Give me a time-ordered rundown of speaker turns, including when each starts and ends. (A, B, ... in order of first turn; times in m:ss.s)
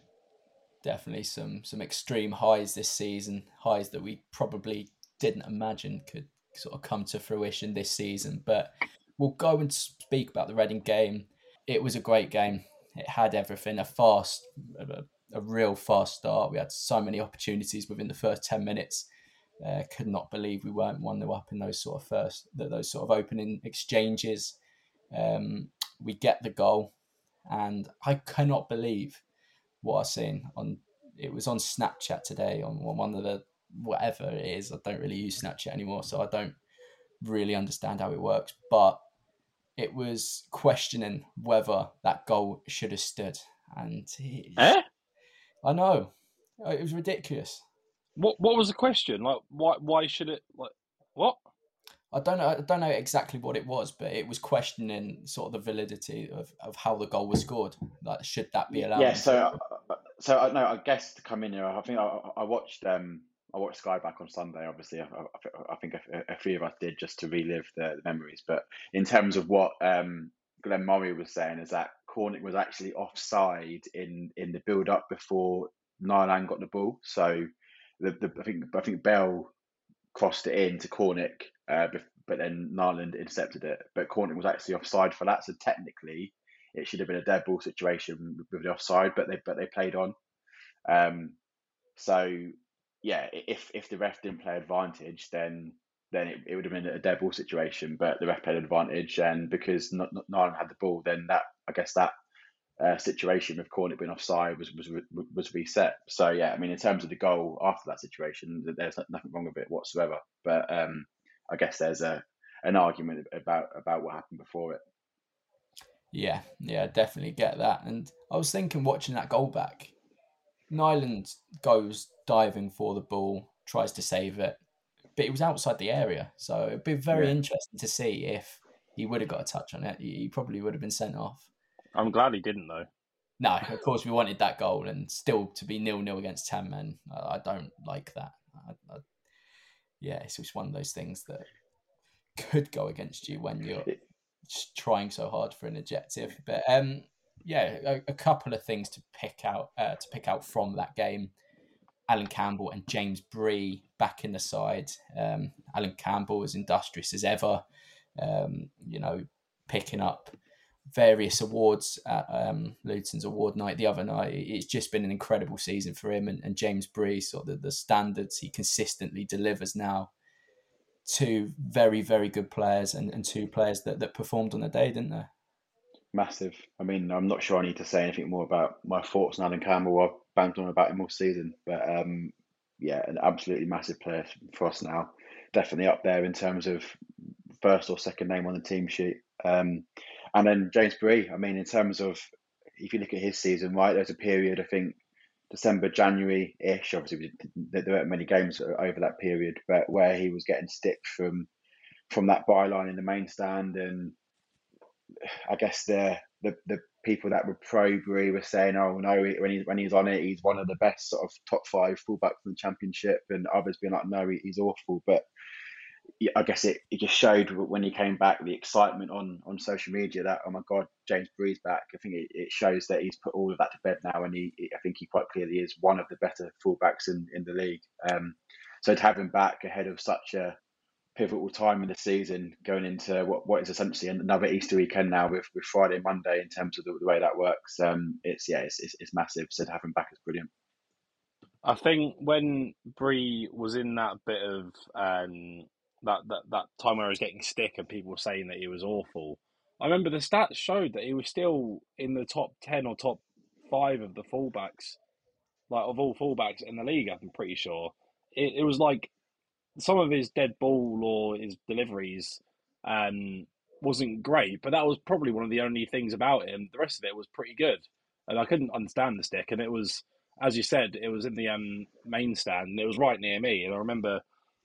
0:00.8-0:19.1 A
0:19.6-0:24.6 A
0:25.1-0:26.9 A
0:27.4-0:29.2 A
0:29.8-0:36.6 A
0:37.2-0:39.0 A
0:39.8-0:44.7 A
0:44.6-0:44.8 B
0:45.6-0:47.6 A
0:48.2-0:51.4 B
0:52.1-0:59.3 A
0:58.7-1:17.5 C
1:18.0-1:19.5 C
1:20.1-1:30.1 C
1:30.9-1:31.4 C
1:32.0-1:42.1 C
1:42.8-1:54.8 C
1:56.1-1:59.9 A
2:00.7-2:04.6 A
2:05.2-2:11.5 A
2:11.9-2:12.9 B
2:13.4-2:19.0 A
2:20.0-2:21.4 A
2:22.4-2:23.9 A
2:24.4-2:31.3 A
2:32.1-2:37.6 A
2:38.2-2:40.3 A
2:40.9-2:50.1 A
2:51.0-2:55.3 A
2:56.1-3:07.0 C
3:07.6-3:12.2 C
3:12.8-3:15.0 C
3:15.5-3:21.5 C
3:22.1-3:24.1 C
3:25.2-3:35.2 C
3:36.2-3:50.6 C
3:51.2-4:00.5 C
4:01.6-4:15.0 B
4:15.7-4:19.1 B
4:19.8-4:34.2 B